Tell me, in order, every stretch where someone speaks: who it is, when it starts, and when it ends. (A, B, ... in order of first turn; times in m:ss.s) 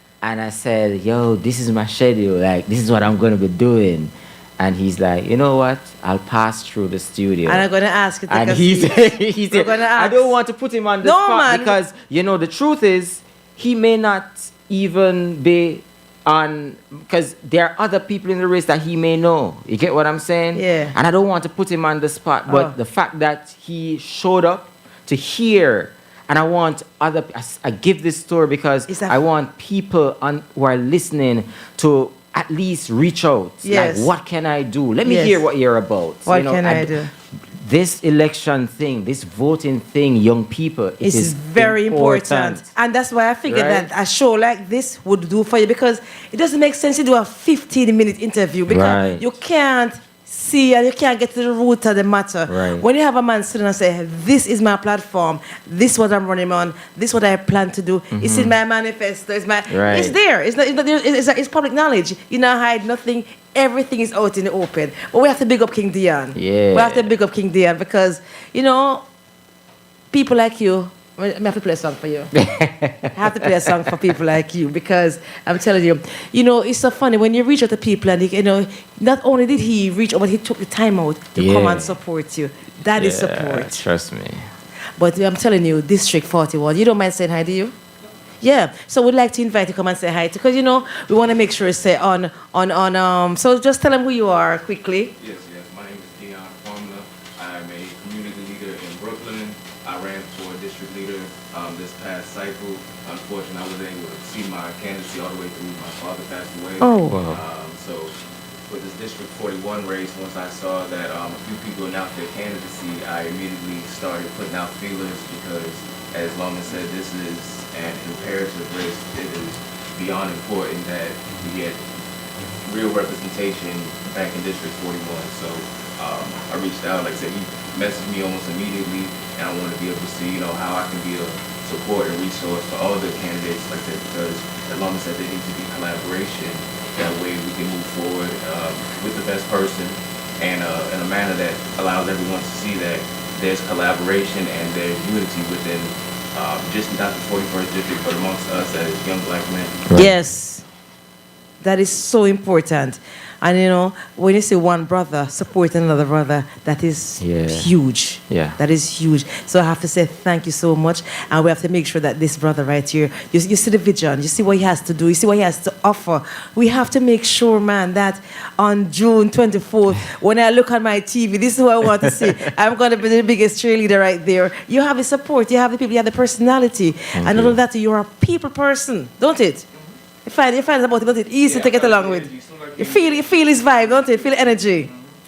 0:00.2-0:07.6 A
0:07.4-0:10.3 B
0:08.3-0:42.7 A
0:11.0-0:11.7 B
0:20.5-0:20.9 B
0:22.5-0:22.7 B
0:28.9-0:29.2 B
0:33.6-0:34.1 B
0:35.0-0:35.4 B
0:36.2-0:37.1 B
0:41.0-1:09.0 B
0:43.5-0:43.9 A
0:48.7-0:49.3 A
0:52.5-0:52.8 A
0:58.1-0:58.5 A
0:59.7-1:00.2 A
1:06.3-1:07.1 A
1:10.1-1:12.3 B
1:12.4-1:13.1 A
1:13.1-1:23.8 B
1:21.4-1:21.9 A
1:22.9-1:24.5 A
1:25.0-1:27.7 B
1:28.4-1:35.1 B
1:35.2-1:48.1 C
1:46.8-1:47.2 B
1:47.1-1:47.4 A
1:48.7-2:01.8 C
2:02.6-2:29.9 C
2:29.9-2:30.6 B
2:31.6-2:59.6 B
2:37.2-2:37.7 A
2:38.3-2:38.6 A
2:57.1-2:57.6 A
3:00.2-3:04.9 B
3:01.4-3:03.2 C